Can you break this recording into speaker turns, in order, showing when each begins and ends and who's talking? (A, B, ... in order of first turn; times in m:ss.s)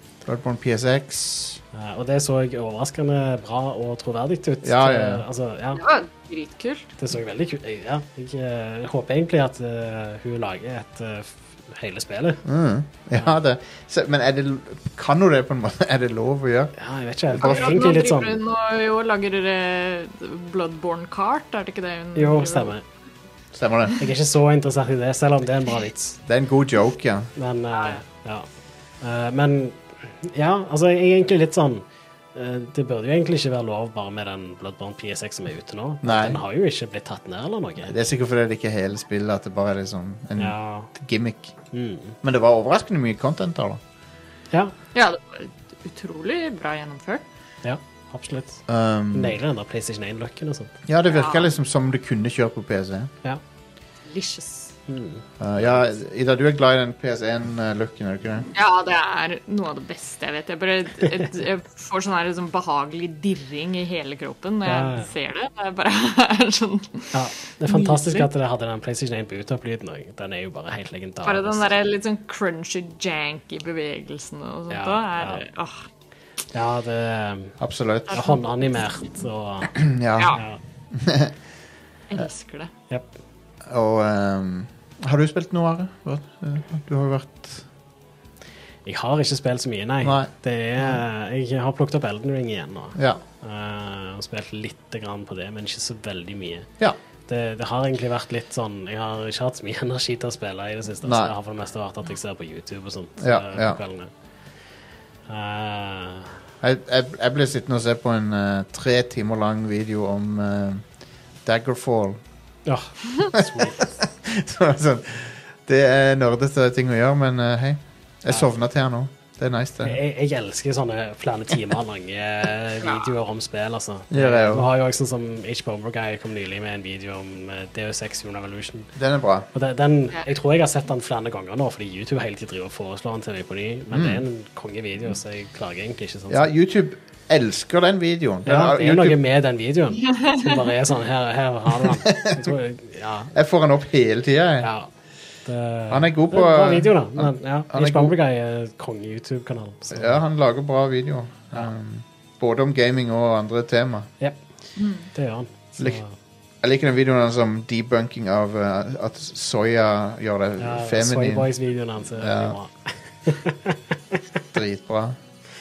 0:00.2-0:01.6 A
0:01.7-0:05.8 B
0:04.6-0:05.2 A
0:05.8-0:06.9 C
0:07.0-0:12.4 B
0:12.5-0:16.7 A
0:16.8-0:18.4 B
0:17.3-0:17.6 A
0:17.4-0:22.8 C
0:22.2-0:22.8 B
0:23.5-0:24.0 A
0:24.0-0:26.2 B
0:26.3-0:27.3 A
0:27.4-0:28.5 B
0:29.0-0:38.0 B
0:36.0-0:36.4 A
0:37.9-0:41.6 A
0:40.4-0:40.9 B
0:41.7-0:42.2 B
0:42.2-0:43.8 A
0:45.0-0:47.2 C
0:47.6-0:48.6 B
0:48.7-0:49.4 A
0:49.1-0:50.7 B
0:50.9-0:53.1 A
0:51.0-0:51.5 C
0:54.1-0:54.8 C
0:54.9-0:55.2 B
0:55.4-0:58.5 A
0:58.5-1:07.2 C
1:04.7-1:05.1 B
1:07.1-1:11.7 B
1:07.7-1:08.3 C
1:11.2-1:15.8 C
1:14.7-1:15.4 B
1:16.5-1:17.6 B
1:17.6-1:18.2 A
1:18.1-1:18.4 C
1:18.1-1:19.8 B
1:19.7-1:20.4 A
1:20.2-1:20.4 C
1:20.9-1:21.3 A
1:22.1-1:22.7 C
1:23.7-1:27.7 A
1:28.8-1:36.7 B
1:30.0-1:30.3 A
1:33.0-1:33.2 A
1:37.3-1:44.1 B
1:41.0-1:41.3 A
1:43.2-1:43.8 A
1:45.3-1:46.4 B
1:46.6-1:50.9 A
1:51.4-1:52.2 A
1:52.7-1:53.8 B
1:53.3-2:00.0 A
1:59.8-2:08.9 B
2:04.1-2:04.7 A
2:09.0-2:09.5 A
2:09.5-2:16.5 B
2:13.9-2:14.2 A
2:16.3-2:19.2 A
2:18.4-2:23.3 B
2:20.2-2:20.5 C
2:21.8-2:22.5 A
2:23.3-2:24.7 A
2:24.6-2:24.9 B
2:25.4-2:30.2 B
2:25.9-2:28.1 A
2:29.9-2:34.1 A
2:34.8-2:35.1 C
2:35.1-2:36.1 B
2:36.6-2:41.5 A
2:40.6-2:44.2 B
2:42.2-2:42.6 A
2:44.5-2:45.2 A